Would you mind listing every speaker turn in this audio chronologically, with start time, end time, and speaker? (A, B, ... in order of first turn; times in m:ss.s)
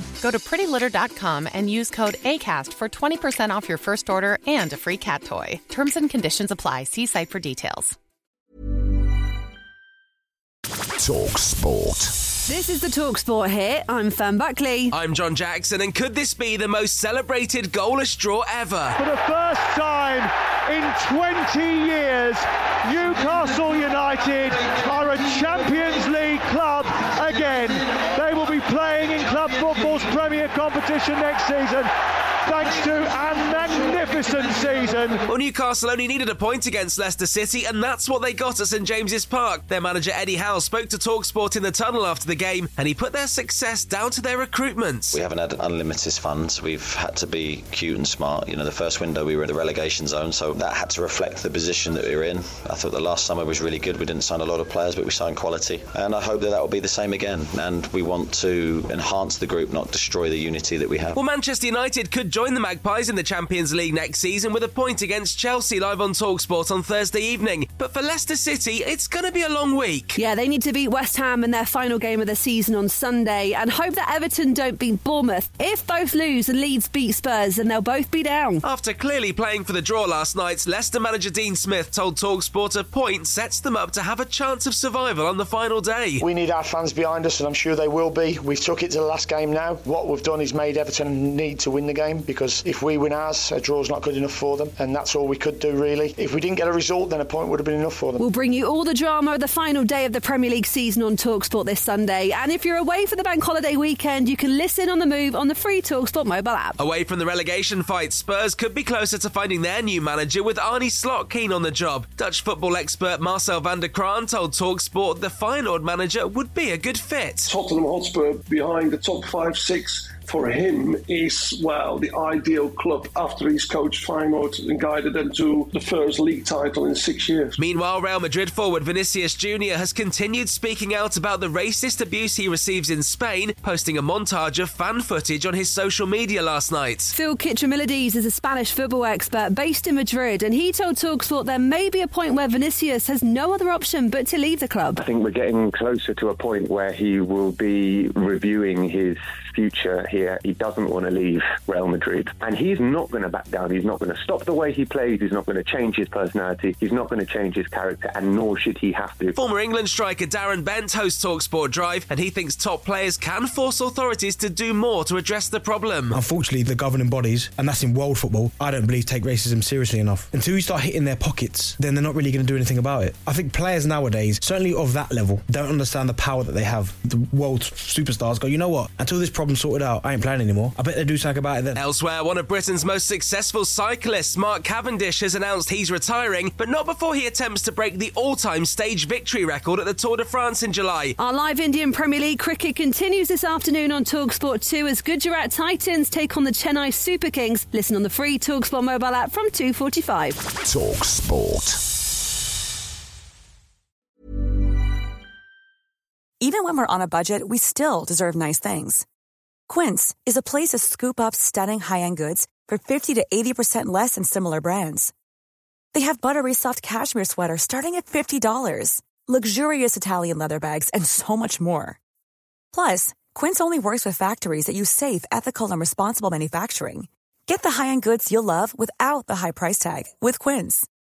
0:00.2-0:08.0 A
0:11.0-0:12.3 B
0:12.4-0:14.9 C
0:14.9-0:19.0 D
0:19.0-0:31.9 E
0:32.4-0:35.2 E
0:35.2-0:45.2 D
0:45.1-1:01.2 F
1:01.2-1:10.2 D
1:10.2-1:18.6 C
1:18.6-1:26.2 D
1:26.2-1:38.2 G
1:38.2-1:46.8 C
1:46.8-1:57.5 D
1:57.5-2:07.6 H
2:07.6-2:17.1 D
2:17.1-2:25.0 C
2:25.0-2:39.4 I
2:39.4-2:46.2 D
2:46.1-3:01.8 J
3:01.8-3:11.2 D
3:11.2-3:20.4 C
3:20.6-3:21.8 B
3:26.4-3:29.0 K
3:29.7-3:35.1 K
3:35.9-3:42.0 K
3:42.7-3:50.9 K